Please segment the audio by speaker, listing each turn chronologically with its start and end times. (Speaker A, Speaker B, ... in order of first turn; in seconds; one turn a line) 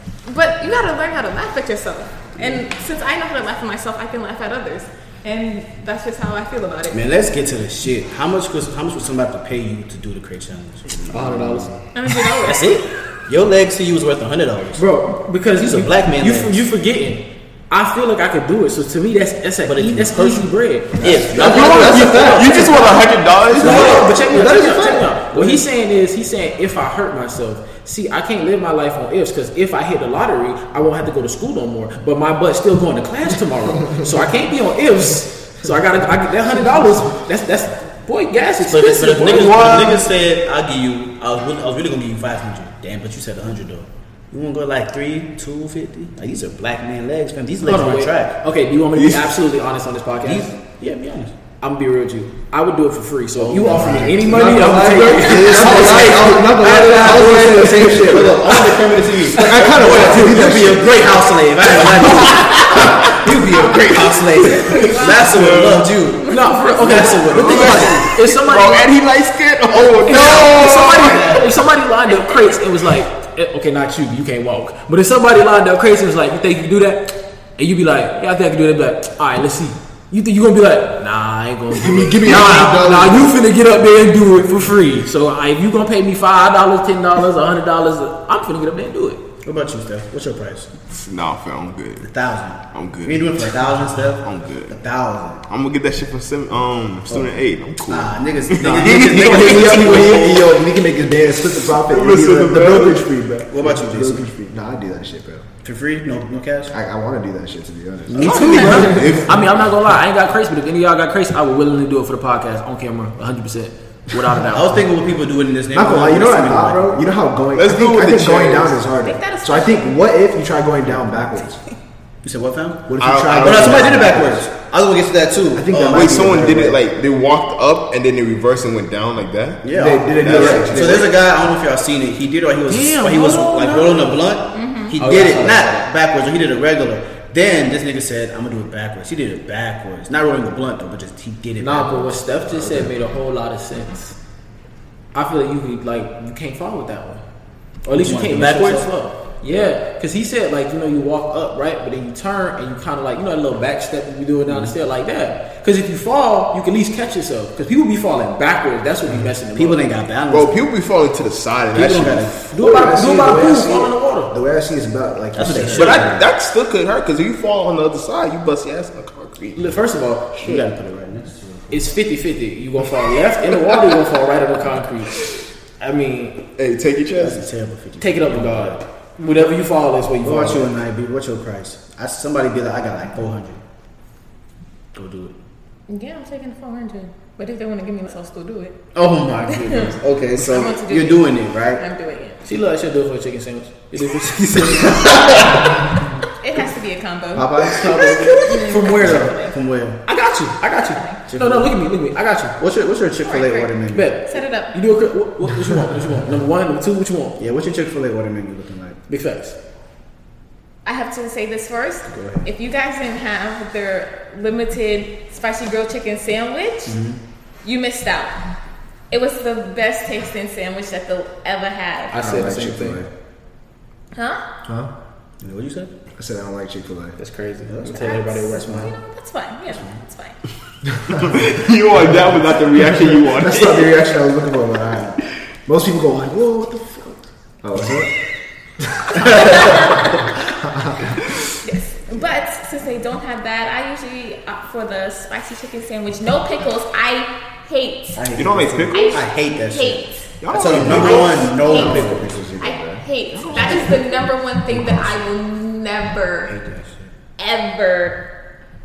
Speaker A: 0.3-7.0
Speaker B: 6.9-14.9
Speaker C: 11.1-11.8
Speaker A: 11.9-12.7
Speaker C: 14.8-23.0
Speaker B: 15.6-16.6
Speaker B: 19.6-22.9
Speaker D: 21.0-22.6
Speaker E: 21.3-24.1
Speaker C: 23.5-40.0
Speaker D: 23.5-25.2
Speaker B: 23.7-24.4
Speaker B: 25.3-25.6
Speaker B: 38.6-48.4
Speaker E: 39.3-40.0
Speaker C: 47.6-50.5
Speaker E: 48.9-49.3
Speaker B: 50.2-51.4
Speaker C: 51.6-58.4
Speaker B: 53.4-54.4
Speaker D: 53.7-58.6
Speaker B: 55.6-56.1
Speaker B: 56.7-68.1
Speaker D: 59.3-61.2
Speaker C: 59.4-60.5
Speaker C: 61.8-63.0
Speaker E: 62.2-63.2
Speaker E: 63.7-66.0
Speaker A: 64.8-65.2
Speaker A: 66.3-66.7
Speaker C: 66.3-68.9
Speaker E: 66.9-71.3
Speaker C: 70.0-89.2
Speaker B: 70.9-71.5
Speaker A: 72.1-72.6
Speaker D: 81.7-83.4
Speaker B: 89.4-90.7
Speaker E: 90.9-92.1
Speaker B: 92.0-95.4
Speaker E: 92.7-93.5
Speaker E: 94.2-94.8
Speaker E: 95.5-100.3
Speaker B: 97.9-100.5
Speaker D: 98.7-105.5
Speaker E: 101.7-103.0
Speaker B: 103.5-104.3
Speaker B: 105.6-106.7
Speaker D: 106.7-109.3
Speaker B: 108.1-109.2
Speaker E: 108.2-109.5
Speaker C: 108.2-114.8
Speaker B: 114.5-117.0
Speaker D: 115.7-121.6
Speaker E: 117.5-118.8
Speaker A: 119.0-120.0
Speaker B: 122.2-126.7
Speaker D: 122.9-124.5
Speaker E: 123.0-124.1
Speaker D: 125.5-126.8
Speaker E: 125.9-131.1
Speaker B: 129.6-142.9
Speaker D: 129.8-131.1
Speaker C: 132.7-134.2
Speaker A: 134.5-135.0
Speaker C: 135.0-135.8
Speaker C: 141.6-144.2
Speaker C: 145.1-147.2
Speaker C: 147.9-160.0
Speaker B: 147.9-148.9
Speaker B: 154.5-154.7
Speaker B: 159.1-160.6
Speaker E: 160.3-162.5
Speaker B: 161.7-163.4
Speaker C: 162.5-164.4
Speaker D: 162.6-166.2
Speaker B: 165.3-166.2
Speaker E: 165.7-169.8
Speaker C: 169.6-170.6
Speaker B: 170.4-171.9
Speaker C: 171.7-176.4
Speaker E: 176.6-177.4
Speaker B: 177.2-178.8
Speaker C: 178.0-180.7
Speaker B: 180.2-183.6
Speaker B: 184.9-185.3
Speaker A: 185.9-188.8
Speaker B: 188.9-191.8
Speaker A: 189.5-192.4
Speaker C: 192.4-195.8
Speaker B: 194.8-195.6
Speaker A: 196.4-199.6
Speaker B: 197.3-198.3
Speaker C: 197.6-199.5
Speaker B: 199.0-200.0
Speaker C: 200.1-202.6
Speaker A: 200.8-201.2
Speaker B: 201.3-201.7
Speaker B: 202.6-204.1
Speaker A: 203.2-204.8
Speaker C: 203.9-207.4
Speaker B: 207.4-209.0
Speaker C: 209.1-209.6
Speaker A: 210.8-217.0
Speaker B: 212.1-212.5
Speaker B: 216.9-217.2
Speaker A: 217.6-218.4
Speaker A: 219.1-222.2
Speaker C: 222.1-223.0
Speaker D: 222.2-223.1
Speaker A: 224.1-224.4
Speaker D: 224.7-224.9
Speaker B: 225.4-225.9
Speaker D: 226.2-227.2
Speaker C: 227.2-228.9
Speaker B: 227.7-228.9
Speaker A: 228.0-230.4
Speaker B: 229.7-230.0
Speaker D: 231.0-231.4
Speaker E: 231.2-233.9
Speaker D: 232.8-238.1
Speaker D: 238.9-241.2
Speaker A: 239.2-240.4
Speaker A: 241.6-248.3
Speaker B: 248.2-252.4
Speaker E: 248.3-249.2
Speaker A: 248.9-256.6
Speaker E: 250.4-251.6
Speaker D: 250.7-253.7
Speaker E: 253.4-254.0
Speaker B: 253.5-253.9
Speaker B: 254.7-255.2
Speaker B: 256.5-257.1
Speaker A: 257.4-258.2